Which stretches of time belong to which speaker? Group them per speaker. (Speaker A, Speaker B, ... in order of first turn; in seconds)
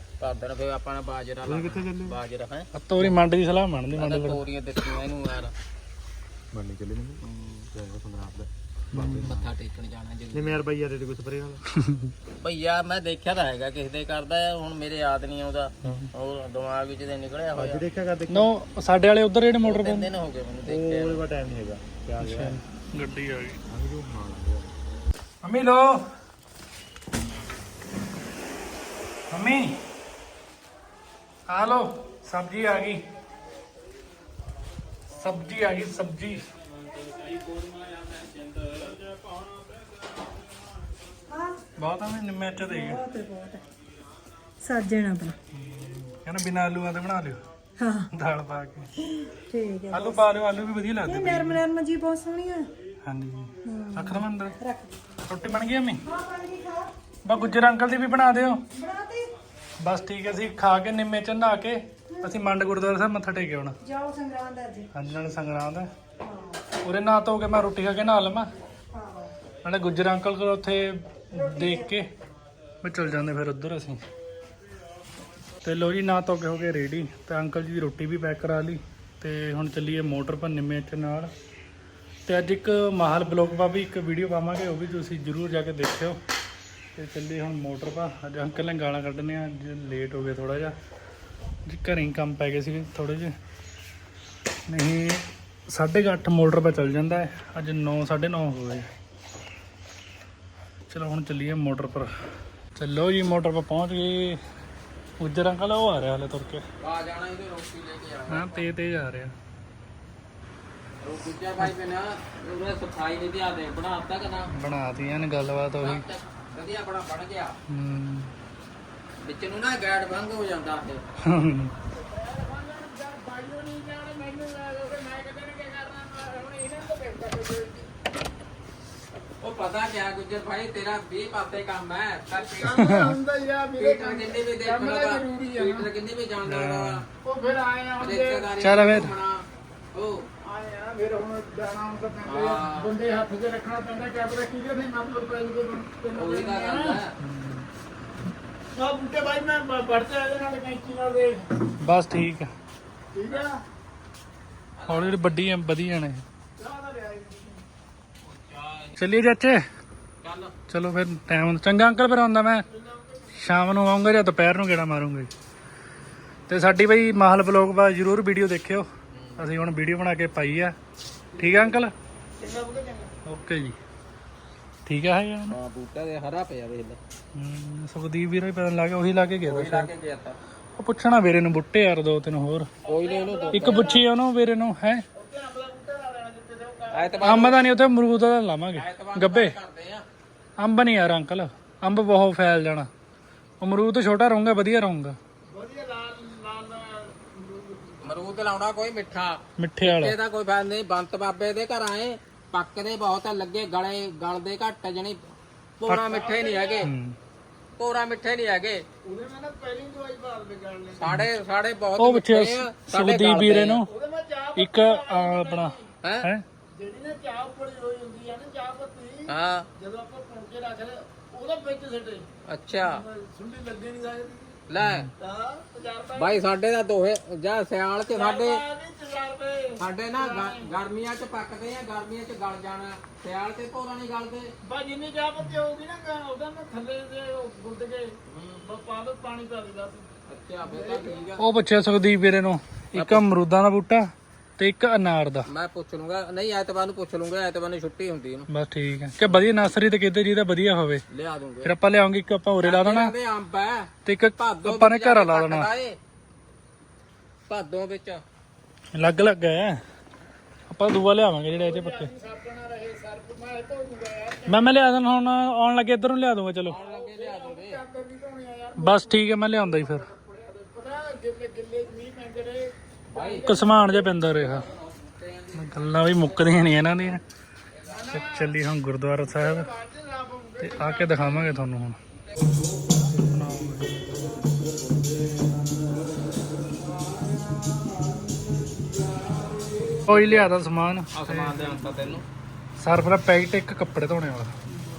Speaker A: 0.2-3.1, 3.9-5.5, 7.2-7.7, 9.1-10.6, 12.4-17.9, 19.6-21.2, 37.0-38.9, 106.8-108.7, 111.0-114.5, 115.8-117.6, 119.2-121.0, 129.4-133.0, 133.8-137.1, 138.0-140.2, 142.2-142.9, 146.1-147.1, 154.8-155.4, 158.2-159.0, 160.2-160.5, 169.1-169.5, 175.5-177.0, 179.5-180.4, 182.9-184.0, 186.9-187.6, 188.8-190.1, 198.0-206.9, 207.8-208.8, 211.0-213.8, 219.3-219.7, 222.5-223.0, 224.7-225.1, 226.2-228.6, 229.8-234.5, 238.3-238.6, 240.3-241.4, 242.9-243.2, 245.5-248.5, 251.1-251.7, 252.6-256.0, 257.5-258.2, 266.7-267.8, 273.1-273.5, 274.2-276.5, 290.1-290.5, 291.1-292.2
Speaker B: 1.5-2.2, 6.5-9.5, 10.3-11.6, 17.6-18.5, 20.6-22.6, 23.7-24.7
Speaker C: 2.8-4.4, 8.9-9.3, 11.8-12.1, 18.3-20.1, 22.2-23.6, 25.4-26.0, 29.3-29.8, 31.5-33.0, 35.1-36.4, 41.8-43.0, 45.5-47.4, 48.1-48.9, 49.9-51.6, 53.0-54.6, 55.3-56.1, 57.2-58.6, 59.8-63.8, 64.9-65.9, 66.8-68.5, 69.6-72.1, 72.8-74.0, 75.6-81.3, 82.3-86.2, 87.0-90.8, 91.7-93.3, 94.7-98.9, 100.9-102.1, 102.8-104.4, 105.2-106.6, 108.3-109.3, 114.5-116.0, 117.7-118.3, 121.2-121.7, 132.7-133.2, 136.5-137.0, 138.6-139.2, 147.2-147.7, 151.8-152.5, 154.9-156.2, 159.0-159.6, 160.7-162.7, 163.3-165.3, 166.5-170.8, 171.4-171.9, 173.3-173.8, 174.9-175.6, 177.3-179.9, 180.8-182.7, 183.5-185.1, 187.2-189.6, 190.6-192.9, 193.6-195.2, 199.6-200.2, 206.8-207.2, 212.0-213.9, 214.6-216.4, 224.8-225.1, 241.4-245.5, 248.5-251.0, 251.6-253.1, 254.1-255.7, 258.9-259.8, 260.7-262.1, 264.5-266.8, 268.8-270.1, 273.4-274.7, 275.5-277.2, 278.1-279.7, 280.6-282.0, 283.1-284.1, 290.1-291.9, 292.8-294.5
Speaker D: 41.3-41.6, 42.6-43.6, 44.6-45.4, 47.8-48.1, 49.2-50.3, 51.0-52.7, 53.6-54.9, 56.0-57.6, 58.7-59.3, 62.1-62.4, 63.8-64.9, 66.2-66.6, 68.9-69.3, 71.3-71.9
Speaker E: 121.9-127.9, 132.4-135.9, 137.2-138.5, 140.4-147.0, 148.7-151.6, 153.1-153.6, 156.6-157.6, 162.7-163.2, 172.4-173.1, 182.9-184.0, 185.1-187.4, 195.5-198.1, 205.9-206.9, 209.1-211.1, 213.9-215.9, 216.8-222.3, 222.8-224.6, 225.2-226.4, 228.1-230.7, 234.6-240.1, 240.6-241.3, 261.5-264.8, 266.8-274.1, 277.9-278.5, 279.3-281.5, 287.4-290.0